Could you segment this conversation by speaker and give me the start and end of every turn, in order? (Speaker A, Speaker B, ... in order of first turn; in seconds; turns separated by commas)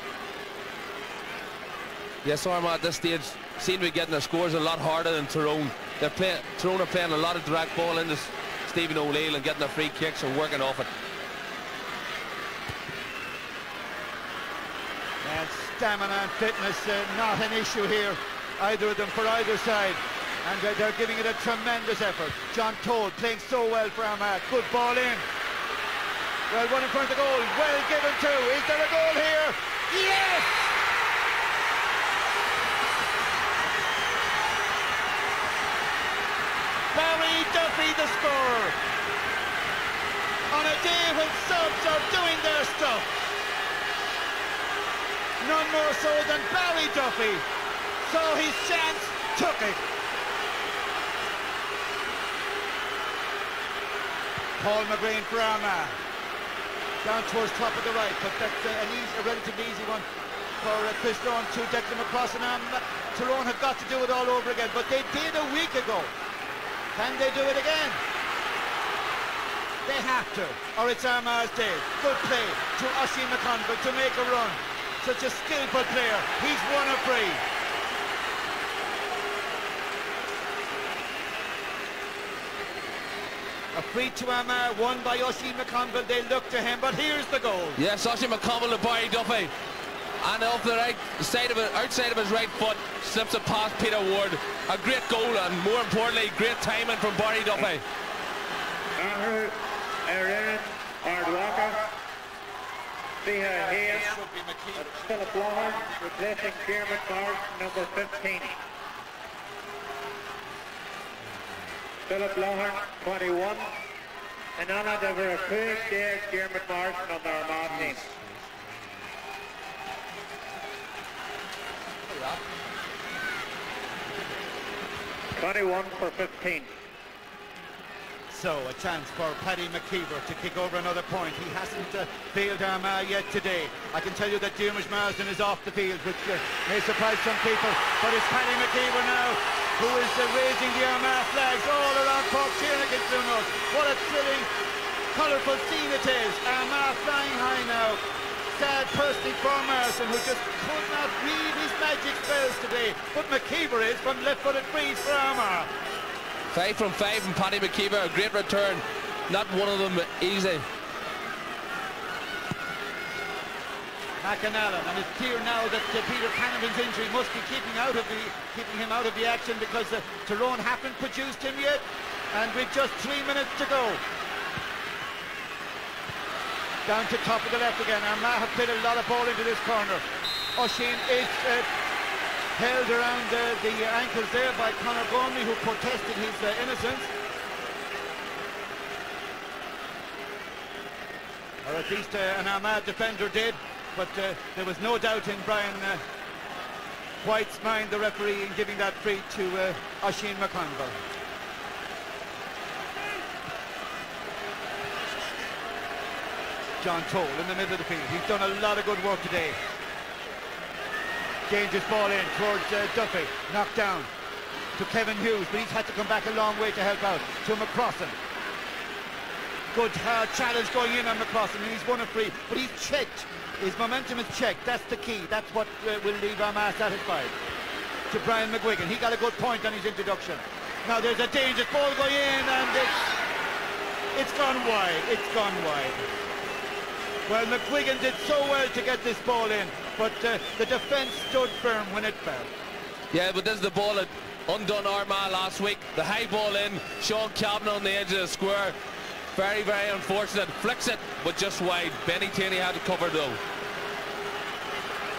Speaker A: 2.2-10.9, Speaker B: 15.2-25.2, Speaker B: 26.5-30.7, Speaker B: 36.9-38.8, Speaker B: 40.5-43.1, Speaker B: 45.4-47.4, Speaker B: 48.0-49.8, Speaker B: 54.6-56.0, Speaker B: 57.0-60.0, Speaker B: 60.6-66.1, Speaker B: 67.0-68.0, Speaker B: 69.8-77.4, Speaker B: 83.7-87.8, Speaker A: 87.8-89.5, Speaker A: 90.2-97.8, Speaker C: 99.0-101.9, Speaker C: 103.2-104.2, Speaker B: 103.8-104.9, Speaker C: 104.8-108.6, Speaker C: 112.0-113.7, Speaker C: 114.6-118.1, Speaker C: 125.4-126.7, Speaker B: 128.3-144.5, Speaker B: 145.1-155.7, Speaker A: 156.5-160.7, Speaker B: 164.2-174.0, Speaker B: 176.9-180.1, Speaker B: 180.6-181.7, Speaker B: 182.6-187.1, Speaker B: 191.6-196.0, Speaker B: 197.2-201.0, Speaker B: 206.8-209.6, Speaker B: 211.5-214.1, Speaker B: 214.8-218.2, Speaker B: 219.7-227.3, Speaker B: 228.1-233.0, Speaker B: 234.1-236.0, Speaker B: 237.3-242.5, Speaker A: 243.1-248.8, Speaker A: 249.3-253.4